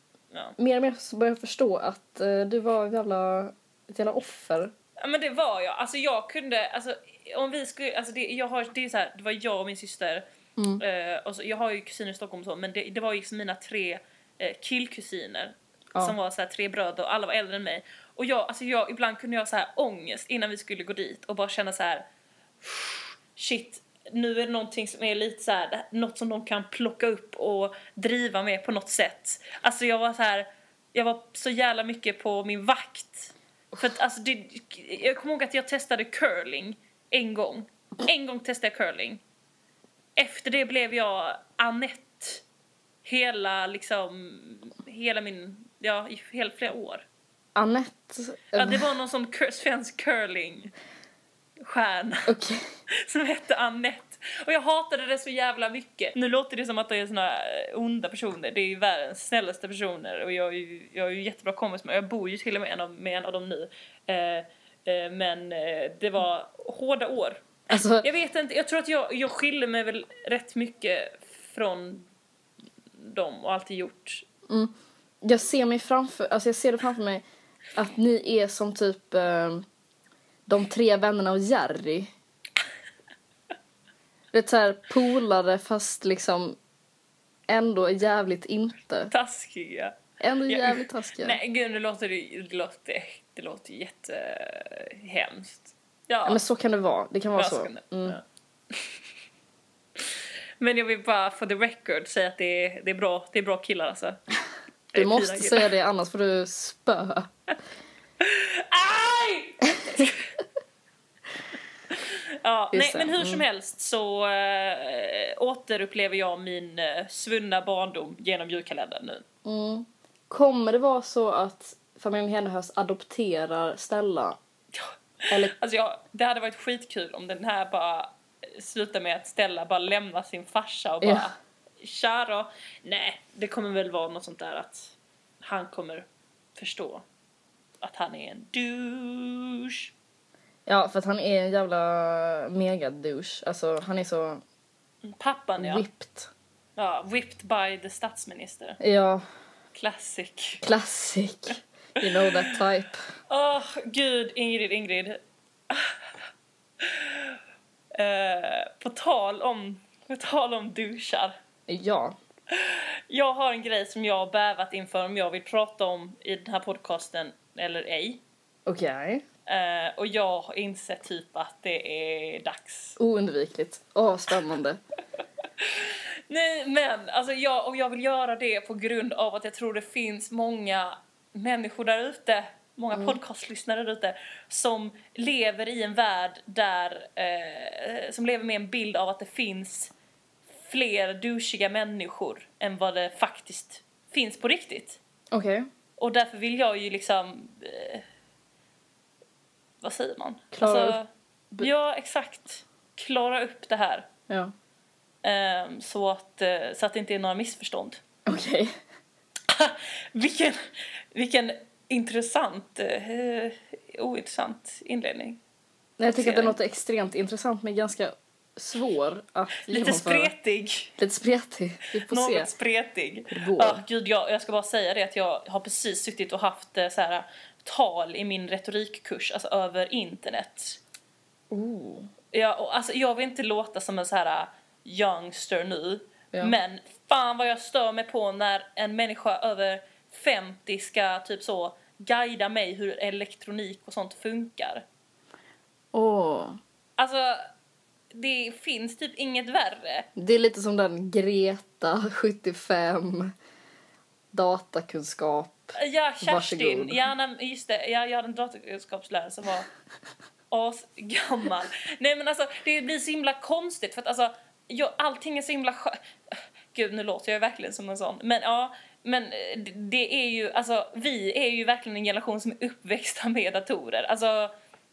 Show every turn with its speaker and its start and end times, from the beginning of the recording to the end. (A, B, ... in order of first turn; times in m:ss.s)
0:00.6-0:04.7 A
0:05.0-0:10.2 B
0:10.6-0:10.8 A
0:10.8-0:22.0 B
0:22.6-0:39.2 B
0:40.2-0:42.4 B
0:43.0-0:47.0 B
0:47.6-0:48.9 A
0:48.5-0:50.7 B
0:51.6-0:52.3 B
0:52.3-0:52.6 A
0:52.9-1:07.5 B
1:07.7-1:08.0 A
1:08.0-1:12.0 B
1:13.0-1:14.2 B
1:14.5-1:17.2 A
1:17.7-1:19.6 A
1:20.5-1:22.1 A
1:24.3-1:26.6 A
1:27.5-1:29.1 A
1:29.1-1:36.4 B
1:30.2-1:31.4 A
1:36.2-1:38.2 A
1:37.4-1:38.9 B
1:40.0-1:44.2 B
1:44.9-1:45.7 B
1:44.9-1:47.3 A
1:48.2-1:50.2 B
1:51.9-1:59.2 B
1:52.7-1:53.4 A
1:59.4-2:04.4 A
2:04.7-2:17.0 B
2:05.3-2:05.5 A
2:11.0-2:11.3 A
2:17.8-2:19.9 B
2:20.7-2:24.4 A
2:25.0-2:25.8 B
2:25.6-2:26.3 A
2:26.8-2:28.8 B
2:28.8-2:29.2 A
2:29.7-2:30.6 B
2:30.6-2:33.0 A
2:33.3-2:36.2 B
2:36.8-2:37.4 B
2:37.9-2:41.3 B
2:41.7-2:42.1 A
2:42.5-2:48.2 B
2:48.6-2:49.2 A
2:49.4-2:53.0 B
2:53.0-2:54.8 A
2:55.6-3:09.9 B
3:02.9-3:03.2 A
3:10.6-3:15.0 B
3:15.3-3:15.7 A
3:16.0-3:18.0 B
3:19.8-3:21.1 B
3:20.5-3:21.0 A
3:21.6-3:24.1 B
3:25.2-3:28.0 B
3:28.3-3:28.7 A
3:29.5-3:30.6 B
3:31.1-3:35.4 B
3:36.0-3:40.3 A
3:36.1-3:36.6 B
3:39.7-3:40.9 B
3:41.0-3:42.5 A
3:42.0-3:50.8 B
3:43.3-3:43.8 A
3:51.5-3:52.1 A
3:52.3-4:04.8 B
4:05.9-4:06.6 A
4:07.0-4:07.4 B
4:08.1-4:10.1 B
4:10.2-4:13.3 A
4:14.3-4:17.0 A
4:15.8-4:19.7 B
4:20.5-4:34.5 B